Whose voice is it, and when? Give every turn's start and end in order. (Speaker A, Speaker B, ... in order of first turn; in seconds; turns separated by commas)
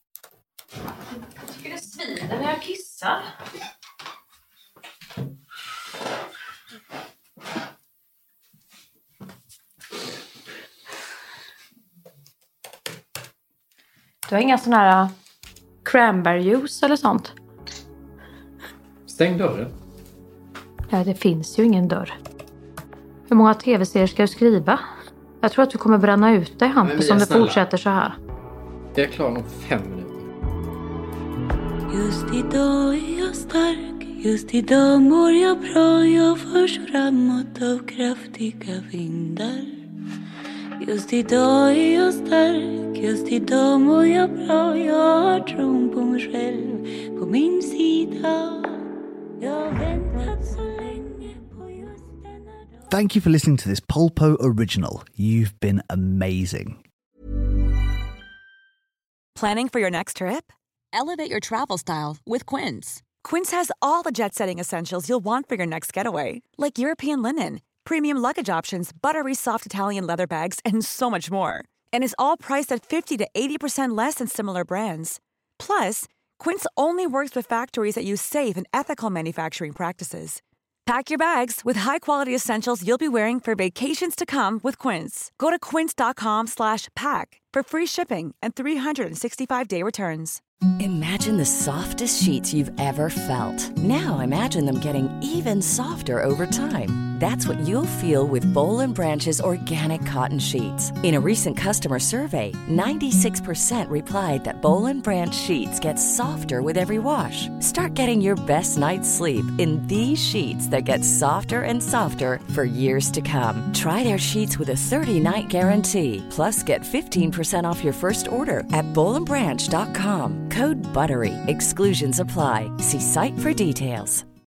Speaker A: 1.5-3.2, Speaker A: 14.3-15.1, Speaker A: 15.8-17.3, Speaker B: 19.1-19.7, Speaker A: 20.9-22.1, Speaker A: 23.3-24.8, Speaker A: 25.4-28.2, Speaker B: 26.8-27.6, Speaker B: 28.9-30.3, Speaker C: 31.9-39.8, Speaker C: 40.8-48.8, Speaker C: 49.4-52.8, Speaker D: 52.9-56.8, Speaker E: 59.3-90.4, Speaker F: 90.8-124.2